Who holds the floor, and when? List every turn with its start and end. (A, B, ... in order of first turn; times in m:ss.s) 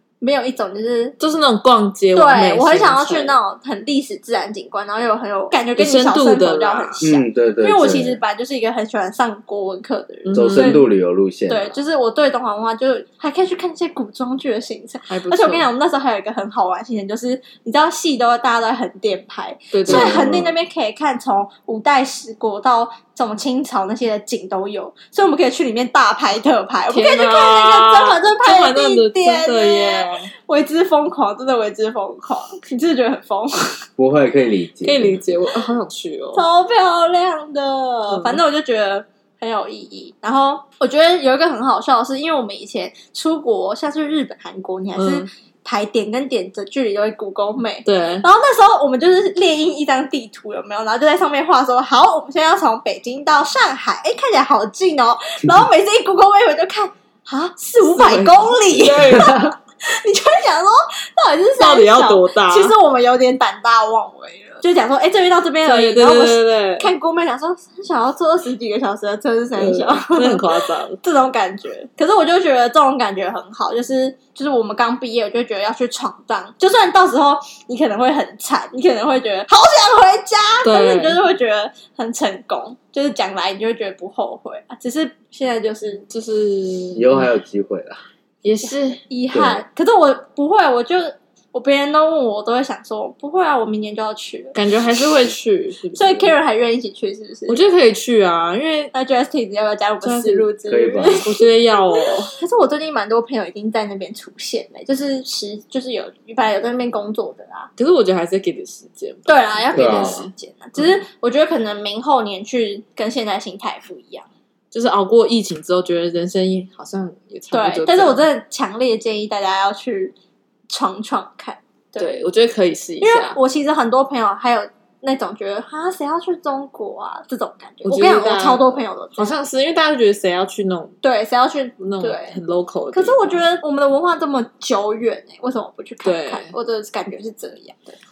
0:00.2-0:01.2 A
0:01.2-0:03.4 B
0:02.2-0:10.8 A
0:05.8-0:07.1 B
0:07.0-0:08.2 C
0:10.2-0:10.8 B
0:10.3-0:11.8 C
0:11.5-0:33.8 A
0:15.1-0:15.7 B
0:19.7-0:20.2 B
0:19.8-0:20.5 C
0:26.9-0:30.3 B
0:34.0-0:35.2 C
0:34.8-0:36.4 B
0:36.3-1:26.0 A
0:38.1-0:38.4 B
0:45.0-0:45.3 B
0:47.8-0:48.2 B
0:57.8-0:59.6 B
1:01.6-1:02.7 B
1:05.6-1:06.9 B
1:09.6-1:11.0 B
1:20.6-1:21.2 B
1:26.1-1:27.3 B
1:27.0-1:28.0 C
1:28.4-1:29.0 B
1:29.0-1:34.6 A
1:29.3-1:29.6 C
1:34.5-1:36.3 B
1:36.0-1:37.6 A
1:37.5-1:38.9 B
1:38.9-1:41.4 A
1:40.0-1:40.5 B
1:40.7-1:41.2 C
1:41.1-1:42.3 B
1:42.3-1:47.7 A
1:47.8-1:50.3 B
1:49.3-1:54.3 A
1:49.7-1:50.2 C
1:54.7-1:58.2 B
1:57.5-2:00.1 A
2:00.7-2:02.1 A
2:02.0-2:03.4 B
2:03.0-2:09.4 A
2:07.8-2:11.0 B
2:11.0-2:12.4 A
2:11.8-2:13.4 B
2:12.9-2:18.0 A
2:16.0-2:16.5 B